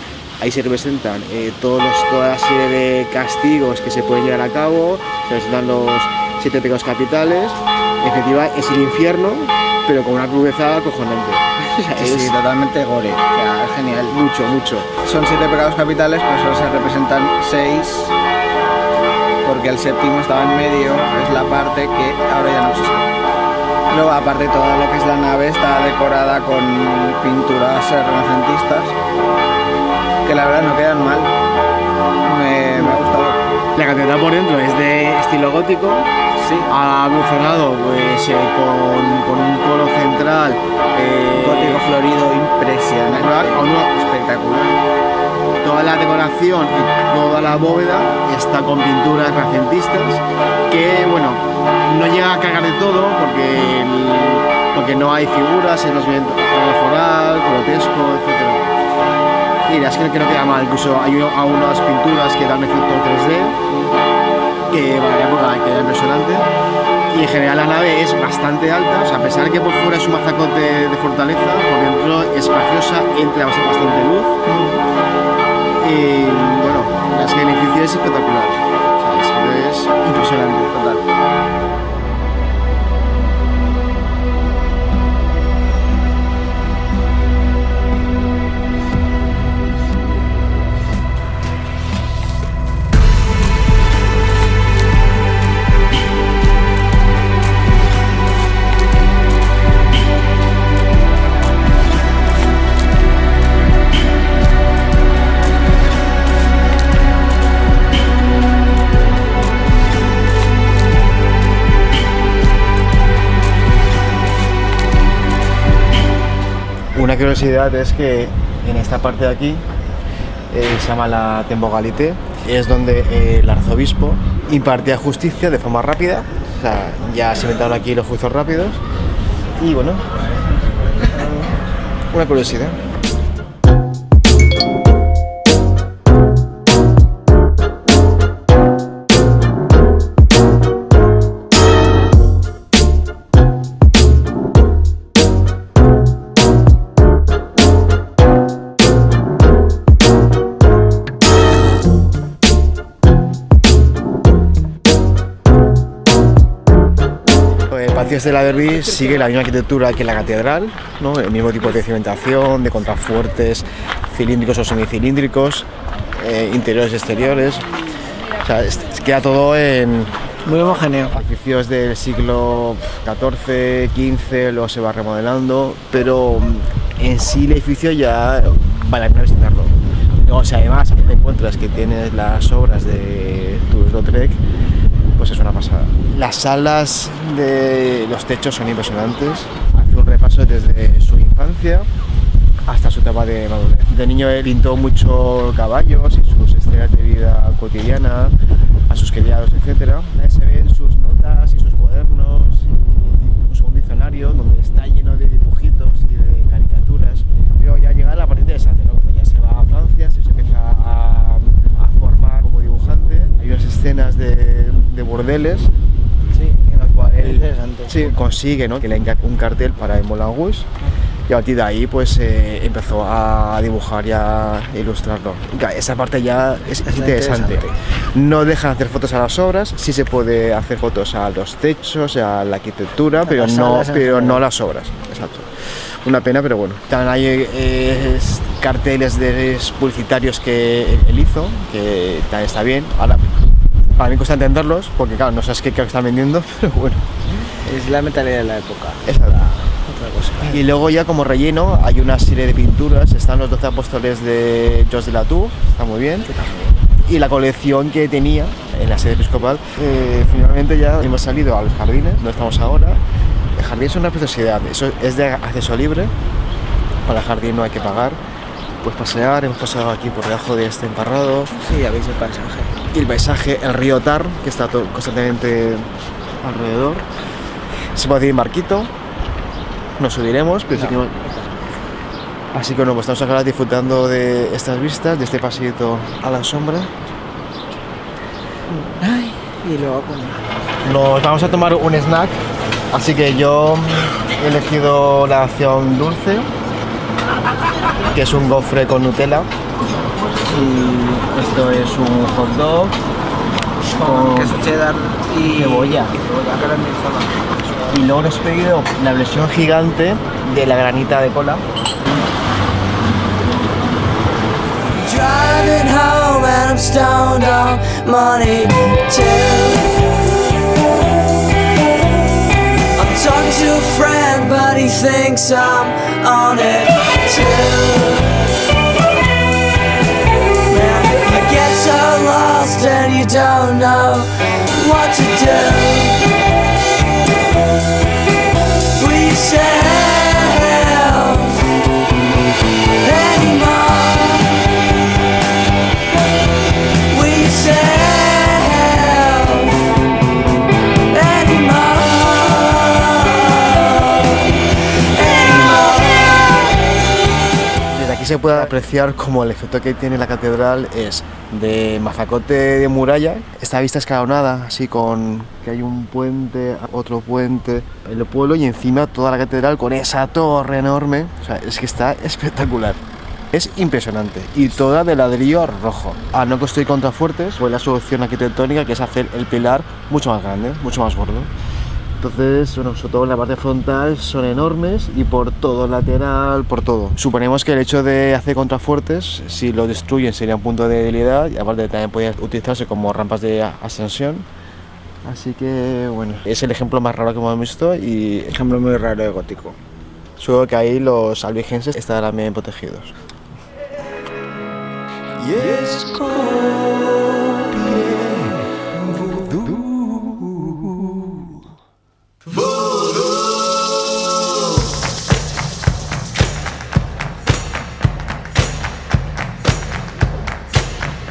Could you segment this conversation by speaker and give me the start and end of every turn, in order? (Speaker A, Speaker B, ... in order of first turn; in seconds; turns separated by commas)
Speaker A: 0.4-12.4, Speaker B: 11.9-14.2, Speaker A: 14.1-14.9, Speaker B: 14.8-18.1, Speaker B: 19.4-23.1, Speaker B: 23.9-28.9, Speaker B: 30.2-31.3, Speaker B: 32.2-33.4, Speaker A: 33.7-36.1, Speaker B: 36.4-36.7, Speaker A: 36.7-41.9, Speaker B: 41.3-44.6, Speaker A: 43.0-44.7, Speaker A: 45.6-58.7, Speaker A: 59.6-63.6, Speaker A: 64.7-66.5, Speaker A: 67.1-74.4, Speaker B: 74.5-74.8, Speaker A: 75.8-80.7, Speaker B: 80.7-81.0, Speaker A: 116.9-119.6, Speaker A: 120.5-128.8, Speaker A: 129.6-130.1, Speaker A: 131.0-131.5, Speaker A: 132.1-132.8, Speaker A: 157.7-167.7, Speaker A: 168.4-170.2, Speaker B: 170.4-171.2, Speaker A: 171.1-184.4, Speaker A: 185.2-191.9, Speaker A: 192.7-198.3, Speaker A: 198.9-215.7, Speaker B: 216.3-218.2, Speaker A: 216.9-220.7, Speaker A: 221.3-247.1, Speaker B: 226.8-227.7, Speaker B: 233.2-234.4, Speaker B: 247.4-250.6, Speaker A: 249.0-249.4, Speaker A: 250.4-256.3, Speaker B: 256.3-256.8, Speaker A: 257.1-263.0, Speaker A: 263.5-266.1, Speaker A: 267.1-268.2, Speaker A: 268.8-271.5, Speaker B: 271.6-272.8, Speaker A: 272.9-275.9, Speaker A: 276.4-277.1, Speaker A: 277.9-278.9, Speaker A: 280.0-281.1, Speaker B: 280.7-281.6, Speaker A: 282.5-287.0, Speaker B: 288.7-290.4, Speaker A: 290.8-292.4, Speaker A: 292.9-296.5, Speaker A: 298.1-299.5, Speaker A: 300.4-303.0, Speaker B: 303.9-308.0, Speaker A: 303.9-304.6, Speaker A: 305.4-306.1, Speaker A: 307.9-311.6, Speaker C: 314.9-320.1, Speaker C: 320.9-328.5, Speaker C: 330.3-336.4, Speaker C: 338.8-341.8, Speaker C: 342.8-344.9, Speaker C: 346.9-350.0, Speaker C: 351.1-356.9, Speaker A: 357.9-373.0, Speaker A: 373.5-381.5, Speaker A: 382.2-394.4, Speaker A: 395.2-398.5, Speaker B: 398.5-399.8, Speaker A: 400.4-403.1, Speaker A: 405.5-406.6, Speaker A: 407.7-408.5, Speaker A: 409.5-410.7